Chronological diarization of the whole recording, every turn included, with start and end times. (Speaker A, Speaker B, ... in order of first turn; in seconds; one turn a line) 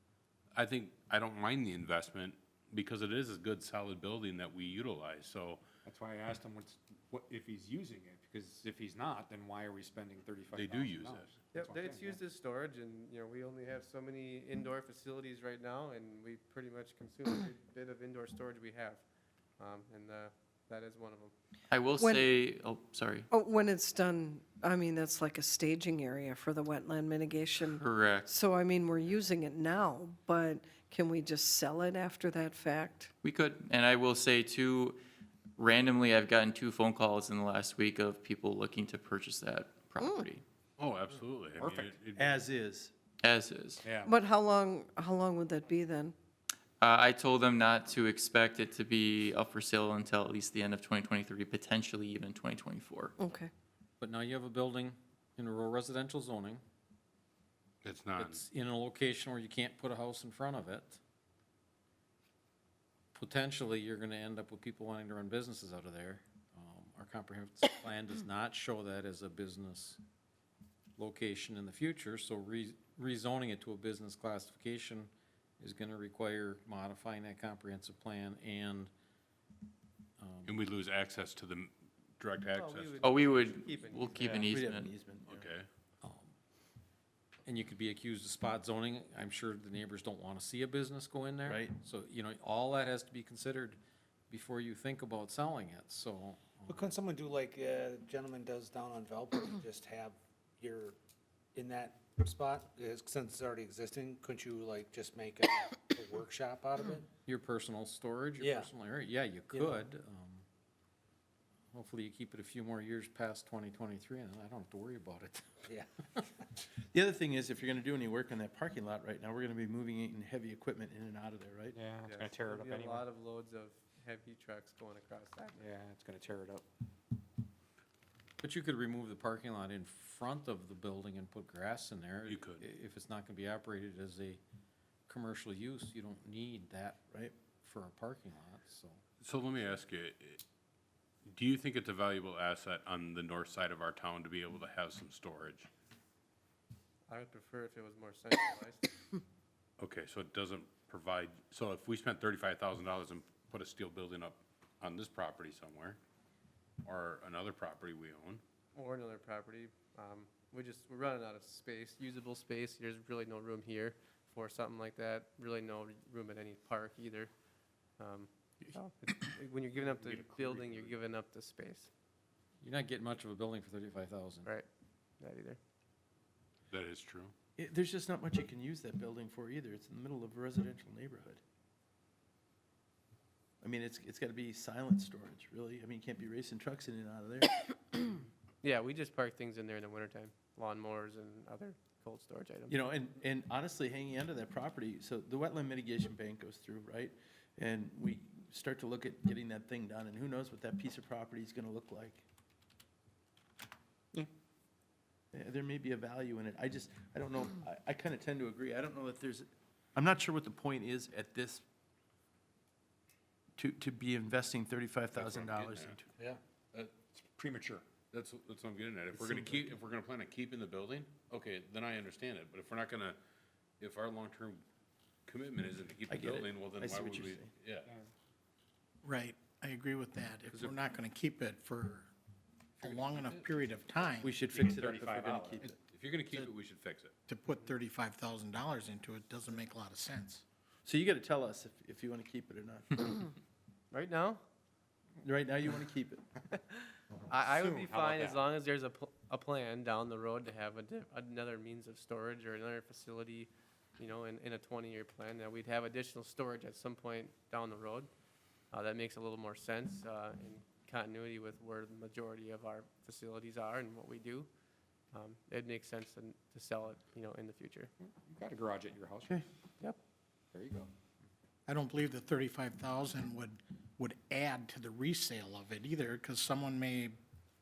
Speaker A: 0.6-5.6
Speaker B: 5.9-12.2
Speaker A: 10.5-11.3
Speaker C: 11.5-19.0
Speaker C: 19.6-21.3
Speaker D: 21.7-23.2
Speaker E: 22.0-22.3
Speaker E: 23.3-33.1
Speaker D: 27.7-28.3
Speaker D: 33.2-35.0
Speaker D: 35.6-40.4
Speaker E: 40.0-40.3
Speaker A: 40.8-42.4
Speaker B: 41.6-41.9
Speaker F: 42.2-42.9
Speaker D: 43.2-43.8
Speaker B: 43.8-44.1
Speaker E: 44.0-46.1
Speaker D: 46.8-53.1
Speaker E: 53.2-53.5
Speaker G: 54.0-56.6
Speaker A: 57.8-58.4
Speaker G: 58.2-61.0
Speaker G: 63.1-70.0
Speaker G: 71.0-78.9
Speaker G: 80.2-80.5
Speaker A: 80.5-83.0
Speaker C: 82.5-84.4
Speaker D: 83.0-84.9
Speaker F: 84.5-85.5
Speaker A: 85.3-85.7
Speaker G: 86.0-86.3
Speaker G: 87.5-93.8
Speaker F: 91.5-91.8
Speaker G: 94.3-96.9
Speaker H: 96.7-101.0
Speaker H: 101.5-107.1
Speaker G: 107.3-110.5
Speaker H: 108.4-108.7
Speaker H: 109.5-109.8
Speaker G: 111.7-115.5
Speaker H: 115.7-116.4
Speaker F: 116.9-121.8
Speaker B: 121.8-123.0
Speaker C: 122.0-125.7
Speaker B: 125.6-126.7
Speaker G: 128.4-134.4
Speaker A: 132.3-132.6
Speaker G: 135.1-137.1
Speaker G: 137.6-139.0
Speaker A: 139.2-140.4
Speaker A: 141.3-145.7
Speaker C: 147.1-148.9
Speaker A: 149.8-156.0
Speaker A: 156.8-158.4
Speaker C: 158.8-167.3
Speaker C: 168.0-171.9
Speaker A: 169.8-170.9
Speaker G: 172.6-174.5
Speaker C: 175.2-175.6
Speaker A: 176.7-177.3
Speaker F: 177.6-181.4
Speaker F: 183.6-188.1
Speaker C: 188.6-192.8
Speaker F: 192.7-202.2
Speaker F: 205.3-211.6
Speaker F: 213.6-216.1
Speaker A: 215.1-216.0
Speaker B: 217.4-217.8
Speaker A: 218.1-223.2
Speaker F: 219.2-219.8
Speaker A: 223.8-224.6
Speaker A: 225.3-227.9
Speaker F: 226.1-227.5
Speaker I: 229.0-232.1
Speaker I: 232.8-234.4
Speaker F: 234.2-235.8
Speaker B: 234.5-235.6
Speaker A: 235.6-237.1
Speaker I: 237.3-240.4
Speaker F: 240.8-243.3
Speaker C: 243.9-244.4
Speaker F: 245.2-246.2
Speaker C: 247.3-258.1
Speaker C: 258.7-264.5
Speaker C: 265.1-267.9
Speaker B: 268.2-269.3
Speaker B: 270.6-270.9
Speaker I: 271.7-277.2